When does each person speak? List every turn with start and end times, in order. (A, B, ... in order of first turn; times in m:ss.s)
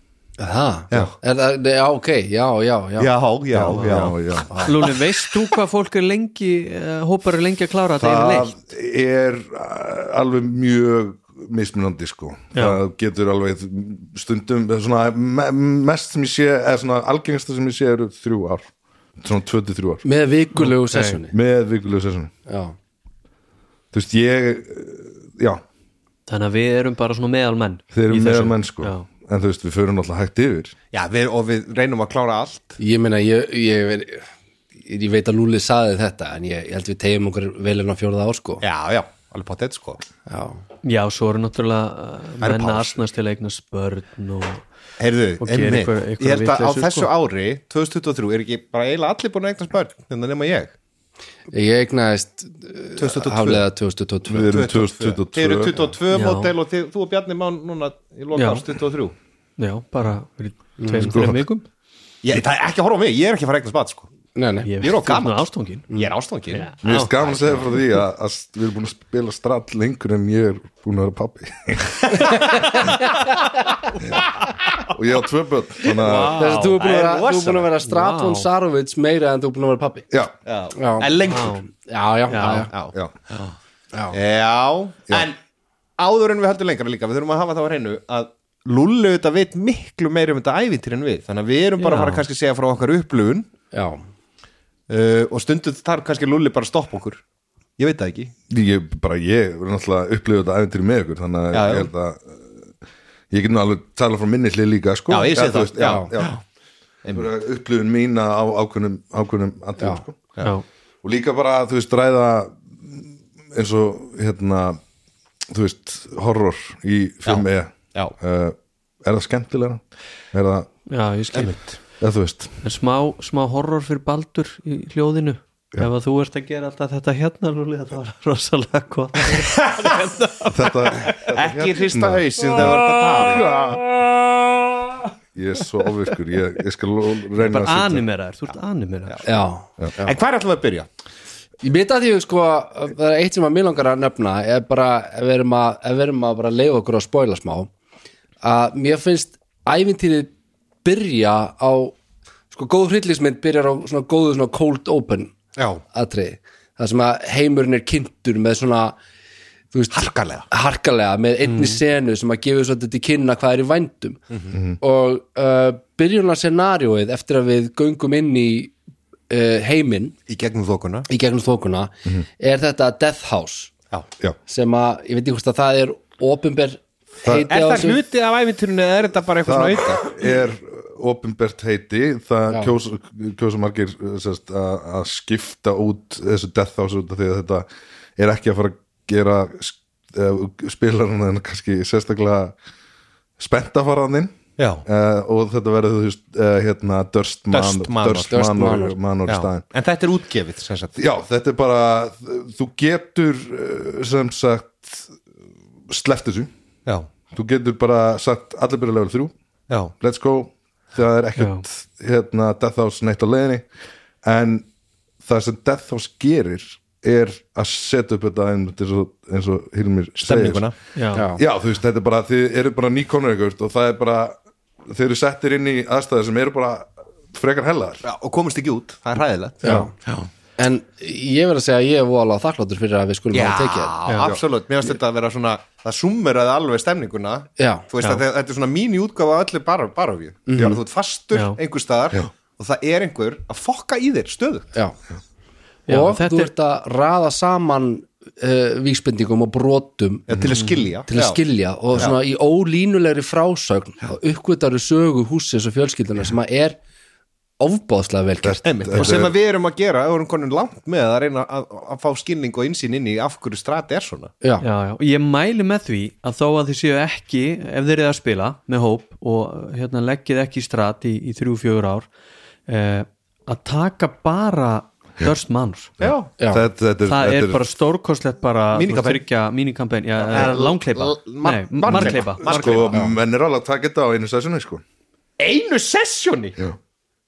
0:00.4-0:03.8 A
0:03.0-0:05.0 B
0:03.7-0:04.0 C
0:03.8-0:04.5 D
0:04.6-0:08.6 C
0:08.0-0:20.0 D
0:12.6-0:12.8 C
0:20.0-0:21.4 A
0:20.6-0:21.2 C
0:21.3-0:22.3 D
0:22.5-0:22.8 A
0:23.9-0:25.6 D
0:26.3-0:29.1 C
0:27.9-0:30.8 D
0:30.9-0:32.8 B
0:32.8-0:34.3 A
0:34.8-0:38.6 A
0:38.6-0:40.0 B
0:40.3-0:40.6 A
0:40.8-0:44.6 C
0:42.4-0:43.0 B
0:45.0-0:50.8 B
0:45.4-0:47.1 C
0:51.5-0:54.6 A
0:53.0-0:53.6 B
0:54.3-0:55.9 D
0:54.5-0:59.1 B
0:56.1-0:56.5 C
0:58.4-0:58.6 C
0:59.6-1:01.7 C
1:00.8-1:01.2 A
1:01.0-1:01.4 D
1:02.2-1:04.1 B
1:04.4-1:04.7 A
1:04.6-1:05.9 C
1:04.8-1:07.6 B
1:06.5-1:07.2 C
1:06.8-1:12.3 D
1:14.9-1:16.4 D
1:15.8-1:16.9 C
1:16.4-1:20.1 A
1:16.7-1:17.7 B
1:17.8-1:18.5 C
1:20.5-1:21.6 B
1:20.8-1:21.1 A
1:21.2-1:21.6 C
1:21.7-1:22.7 A
1:22.3-1:22.7 C
1:22.4-1:23.5 B
1:24.1-1:25.4 B
1:26.0-1:33.5 B
1:31.8-1:32.2 C
1:33.7-1:34.0 A
1:34.9-1:37.2 B
1:37.8-1:38.3 B
1:38.5-1:42.5 D
1:41.5-1:41.9 B
1:43.3-1:46.4 D
1:45.1-1:46.4 B
1:45.8-1:46.1 A
1:47.0-1:47.3 B
1:47.1-1:50.3 D
1:51.0-1:54.8 D
1:55.5-1:59.8 D
1:57.3-1:58.2 B
2:00.3-2:00.7 D
2:00.9-2:01.7 C
2:01.3-2:01.8 B
2:02.0-2:02.6 D
2:02.6-2:11.2 C
2:09.3-2:10.1 B
2:10.5-2:13.8 D
2:11.1-2:13.6 B
2:15.4-2:18.0 D
2:17.4-2:19.3 C
2:19.2-2:20.2 A
2:20.0-2:20.9 B
2:21.6-2:27.7 A
2:28.4-2:30.3 A
2:30.8-2:32.0 A
2:32.5-2:35.4 A
2:35.6-2:35.8 B
2:35.9-2:39.0 A
2:39.7-2:44.2 A
2:39.9-2:40.5 B
2:44.3-2:44.6 B
2:44.5-2:44.8 D
2:44.8-2:48.8 A
2:49.3-2:50.2 A
2:50.3-2:51.1 B
2:51.1-2:53.7 A
2:54.5-2:58.0 A
2:57.3-3:00.1 B
2:59.4-3:07.7 D
3:08.2-3:12.6 D
3:13.4-3:19.6 D
3:14.6-3:14.8 B
3:17.5-3:18.4 B
3:18.3-3:19.0 A
3:19.3-3:21.0 B
3:21.0-3:25.1 D
3:25.9-3:26.5 D
3:27.3-3:29.3 D
3:30.0-3:33.7 D
3:31.4-3:31.6 C
3:34.2-3:34.7 D
3:35.2-3:40.7 D
3:40.2-3:40.7 B
3:41.0-3:41.2 C
3:41.2-3:41.4 A
3:41.4-3:48.0 D
3:48.0-3:50.2 B
3:49.6-3:49.9 A
3:50.6-3:53.9 A
3:53.3-4:04.7 B
3:57.6-3:57.8 A
4:00.5-4:00.8 A
4:01.3-4:01.6 C
4:05.9-4:06.5 C
4:05.9-4:10.3 A
4:10.3-4:11.4 B
4:10.3-4:10.6 D
4:10.5-4:10.9 C
4:11.1-4:16.8 A
4:17.6-4:19.2 A
4:18.4-4:19.3 D
4:18.6-4:24.3 B
4:24.6-4:32.1 C
4:32.7-4:36.0 C
4:36.0-4:37.6 D
4:36.0-4:36.3 B
4:36.4-4:36.6 A
4:37.1-4:42.9 C
4:38.7-4:39.2 B
4:40.2-4:43.0 B
4:41.9-4:44.8 D
4:45.4-4:46.6 B